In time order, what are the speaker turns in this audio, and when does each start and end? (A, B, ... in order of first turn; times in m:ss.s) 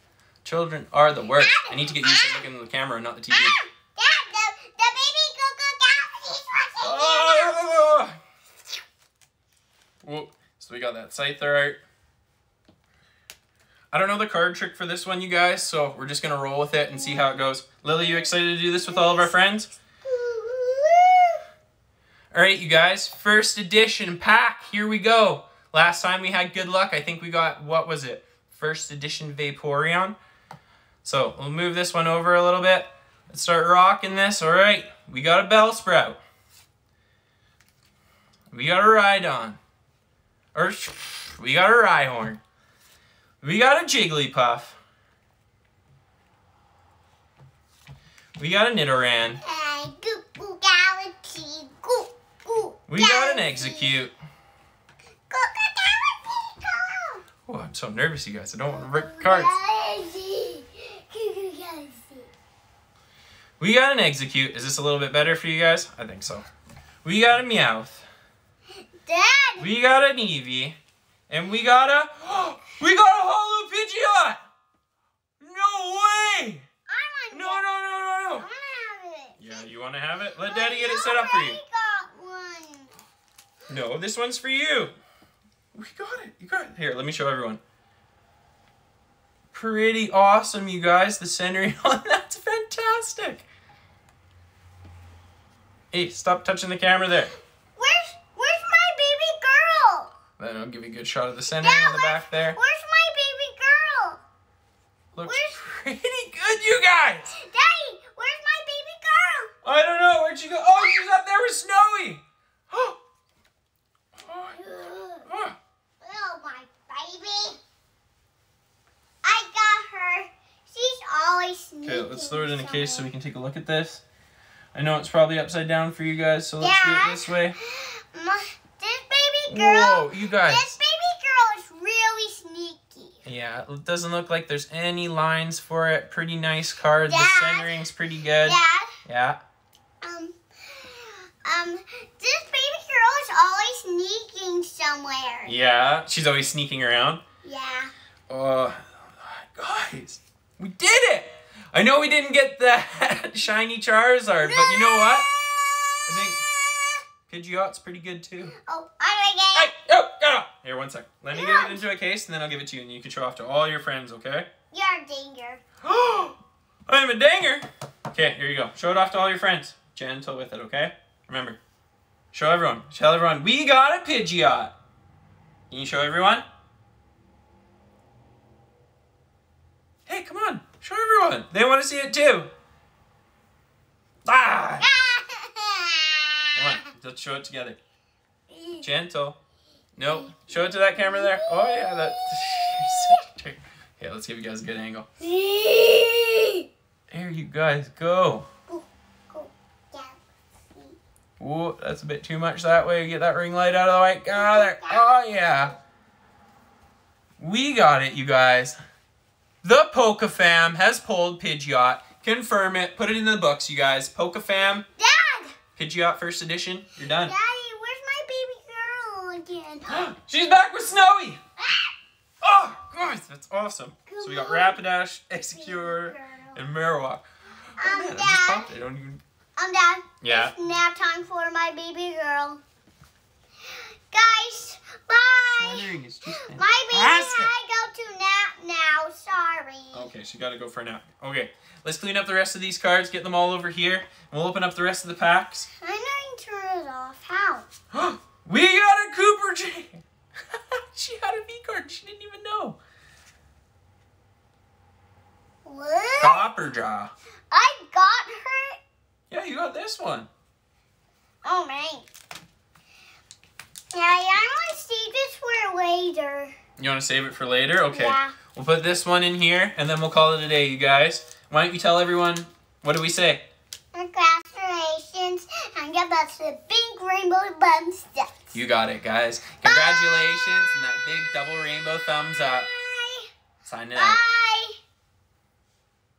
0:00.4-0:03.5 A
0:01.4-0:02.4 B
0:03.3-0:07.6 B
0:06.8-0:08.2 A
0:10.0-0:11.8 A
0:13.9-0:19.7 A
0:16.9-0:17.4 B
0:18.0-0:19.3 B
0:20.0-0:21.4 B
0:22.3-0:30.2 A
0:31.0-0:36.2 A
0:38.5-0:39.6 A
0:40.5-0:42.4 A
0:43.4-0:44.8 A
0:48.4-0:49.4 A
0:49.4-0:54.0 B
0:52.9-0:54.1 A
0:55.3-0:57.2 B
0:57.5-0:59.6 A
0:58.7-1:02.3 B
1:03.6-1:06.4 A
1:07.0-1:08.0 A
1:09.0-1:09.7 B
1:09.6-1:10.8 A
1:11.3-1:14.4 A
1:15.4-1:16.6 A
1:16.9-1:17.6 B
1:17.3-1:18.5 A
1:18.3-1:19.6 B
1:19.4-1:21.6 A
1:20.4-1:23.0 B
1:23.7-1:24.9 A
1:25.7-1:27.6 A
1:29.5-1:33.4 A
1:35.9-1:37.3 A
1:37.8-1:40.1 B
1:40.4-1:42.6 A
1:41.6-1:44.2 B
1:45.1-1:47.3 A
1:45.2-1:45.6 B
1:47.3-1:49.5 B
1:49.6-1:53.0 A
1:54.2-1:54.6 A
1:54.5-1:55.3 B
1:55.2-1:55.6 A
1:56.0-1:57.6 B
1:59.2-2:03.1 B
2:01.8-2:04.0 A
2:04.7-2:07.6 A
2:06.6-2:13.2 B
2:09.5-2:10.7 A
2:13.2-2:19.4 A
2:17.1-2:17.8 B
2:18.4-2:18.9 B
2:20.0-2:25.6 B
2:25.4-2:27.2 A
2:27.4-2:27.9 B
2:28.3-2:35.3 A
2:34.4-2:37.0 B
2:36.0-2:36.4 A
2:37.3-2:38.5 A
2:38.5-2:39.7 B
2:39.5-2:44.5 A
2:41.3-2:41.8 B
2:44.7-2:45.6 B
2:45.8-2:51.6 A
2:52.3-2:54.8 A
2:55.7-2:56.4 A
3:00.1-3:02.5 A
3:04.3-3:04.9 A
3:04.8-3:06.8 B
3:06.5-3:07.8 A
3:08.5-3:08.9 B
3:08.8-3:09.4 A
3:10.0-3:15.1 A
3:10.1-3:13.2 B
3:15.2-3:16.7 B
3:17.1-3:18.5 A
3:18.7-3:21.0 B
3:21.4-3:25.7 A
3:24.3-3:25.1 B
3:27.4-3:28.8 A
3:29.6-3:34.8 A
3:34.9-3:35.6 B
3:35.8-3:37.3 A
3:37.2-3:40.0 B
3:39.9-3:41.4 A
3:41.6-3:41.9 B
3:42.4-3:49.2 A
3:44.1-3:44.8 B
3:45.5-3:46.6 B
3:47.8-3:48.7 B
3:49.6-3:52.6 B
3:50.2-3:50.5 A
3:53.6-4:00.1 B
3:55.5-3:57.5 A
3:59.9-4:05.7 A
4:05.8-4:07.7 B
4:07.9-4:12.8 A
4:15.6-4:16.4 B
4:16.2-4:17.1 A
4:17.5-4:18.8 B
4:19.3-4:20.3 A
4:21.4-4:22.1 B
4:23.9-4:26.5 B
4:26.8-4:33.4 A
4:27.9-4:28.4 B
4:33.9-4:38.4 B
4:38.5-4:42.7 A
4:39.6-4:43.3 B
4:43.6-4:44.2 A
4:43.9-4:44.8 B